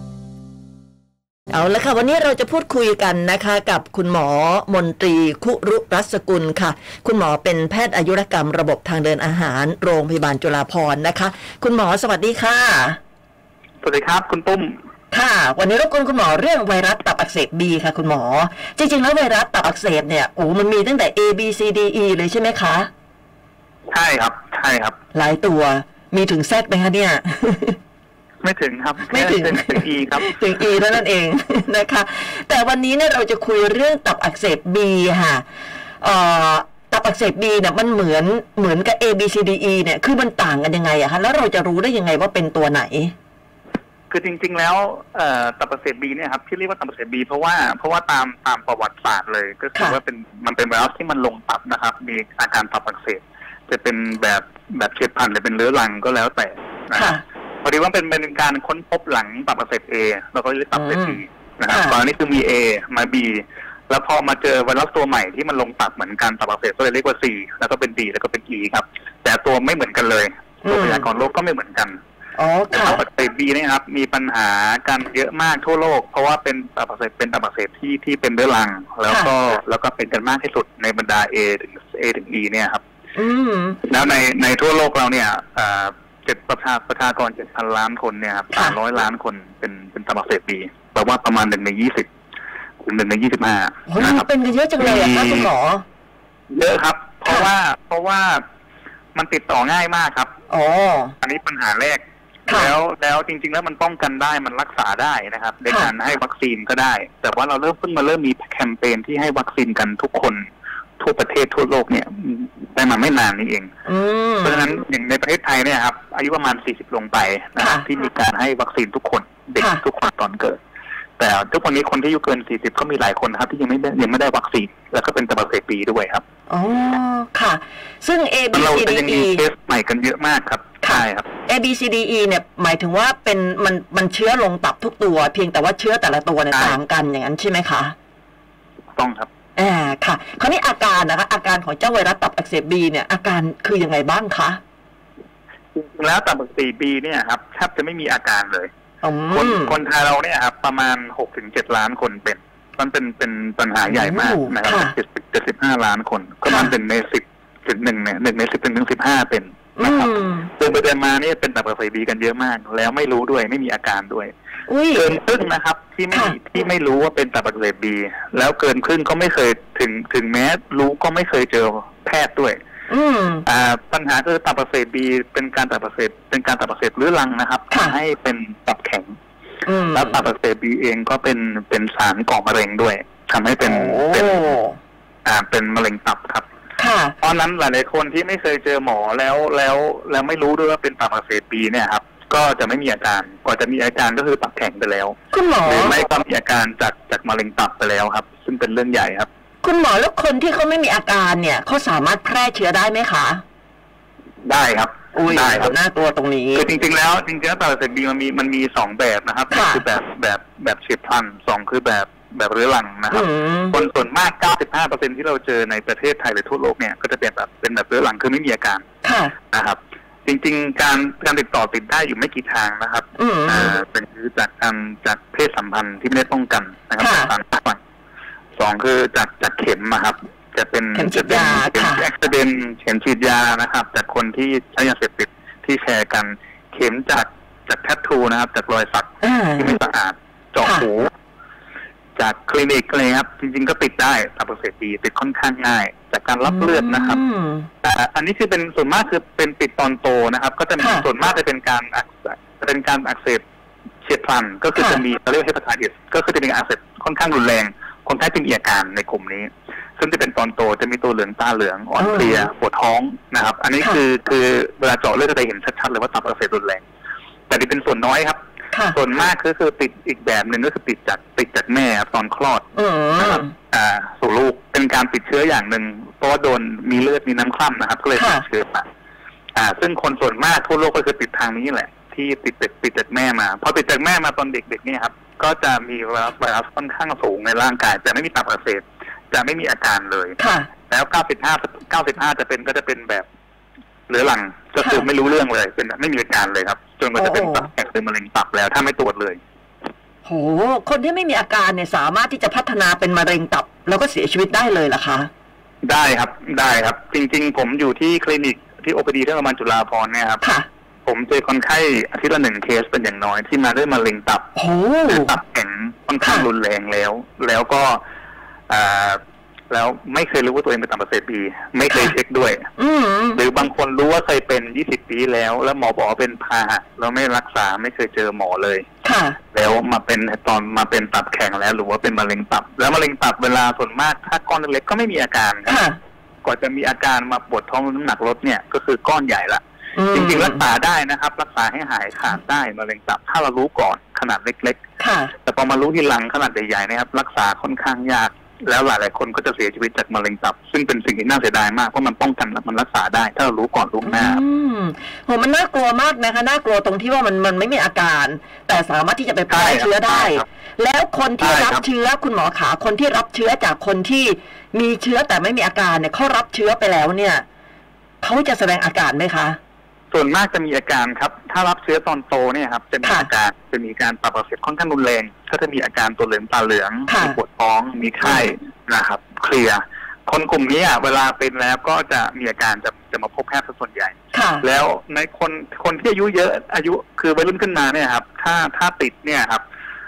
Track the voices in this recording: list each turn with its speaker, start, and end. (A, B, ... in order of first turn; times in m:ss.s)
0:01.5-0:13.0 A
0:13.8-0:14.8 B
0:15.1-0:22.9 A
0:23.9-0:25.0 B
0:25.1-0:27.8 A
0:28.4-0:30.8 B
0:29.1-0:35.4 A
0:36.0-0:43.1 A
0:44.1-1:12.0 B
0:56.9-0:57.2 A
1:00.7-1:01.2 A
1:01.7-1:02.0 A
1:10.6-1:11.0 A
1:12.4-1:13.0 A
1:12.7-1:22.8 B
1:23.1-1:23.8 A
1:23.8-1:32.1 B
1:32.8-1:34.2 B
1:33.9-1:35.8 A
1:34.8-1:35.5 B
1:36.5-1:38.4 B
1:39.1-1:40.3 B
1:40.5-1:41.1 A
1:41.2-1:53.7 B
1:42.5-1:42.7 A
1:53.8-1:54.7 A
1:54.4-2:00.6 B
1:57.6-1:57.8 A
1:59.6-1:59.8 A
2:01.2-2:06.2 B
2:06.5-2:09.4 A
2:08.5-2:11.3 B
2:10.8-2:17.9 A
2:16.5-2:16.8 B
2:19.0-2:19.3 B
2:19.6-2:24.6 A
2:25.7-2:28.7 B
2:29.0-2:29.8 A
2:29.3-2:44.3 B
2:33.9-2:34.9 A
2:36.4-2:36.7 A
2:39.8-2:40.5 A
2:44.7-2:45.1 A
2:44.9-2:52.6 B
2:52.9-2:53.4 A
2:53.4-2:59.2 B
2:57.7-2:58.0 A
2:59.6-3:00.2 A
2:59.9-3:04.5 B
3:03.6-3:04.8 A
3:05.2-3:06.4 B
3:06.8-3:07.1 A
3:07.2-3:19.3 B
3:15.3-3:16.0 A
3:19.6-3:23.4 A
3:24.4-3:25.7 B
3:25.1-3:26.6 A
3:26.5-3:38.8 B
3:29.5-3:29.8 A
3:33.1-3:33.8 A
3:39.0-3:39.3 A
3:39.5-3:47.8 B
3:43.2-3:43.8 A
3:47.0-3:47.3 A
3:48.6-4:01.1 B
3:50.9-3:52.0 A
3:59.2-3:59.8 A
4:02.2-4:07.2 B
4:06.4-4:07.7 A
4:07.8-4:13.4 B
4:10.8-4:11.0 A
4:14.0-4:26.8 B
4:14.8-4:15.0 A
4:22.0-4:22.5 A
4:27.5-4:28.4 B
4:28.7-4:29.0 A
4:28.9-4:32.6 B
4:32.7-4:33.5 A
4:33.2-4:38.9 B
4:38.2-4:38.4 A
4:39.5-4:50.4 B
4:50.4-4:50.7 A
4:50.9-4:53.3 B
4:54.1-4:59.4 B
4:54.8-4:55.1 A
4:57.2-4:57.7 A
5:00.2-5:05.3 A
5:05.8-5:10.4 B
5:10.4-5:10.7 A
5:11.0-5:14.5 B
5:14.5-5:15.3 A
5:15.1-5:18.0 B
5:16.2-5:16.5 A
5:18.7-5:22.7 B
5:21.9-5:22.1 A
5:22.8-5:23.4 A
5:23.4-5:28.9 B
5:29.0-5:29.4 A
5:29.5-5:35.8 B
5:35.6-5:36.0 A
5:36.4-5:44.8 B
5:40.0-5:40.6 A
5:45.0-5:45.3 A
5:45.4-5:54.4 B
5:54.0-6:07.4 A
5:59.5-6:00.4 B
6:01.4-6:01.8 B
6:08.2-6:09.6 A
6:10.1-6:29.6 B
6:13.0-6:13.3 A
6:17.1-6:17.4 A
6:18.2-6:18.5 A
6:24.3-6:24.6 A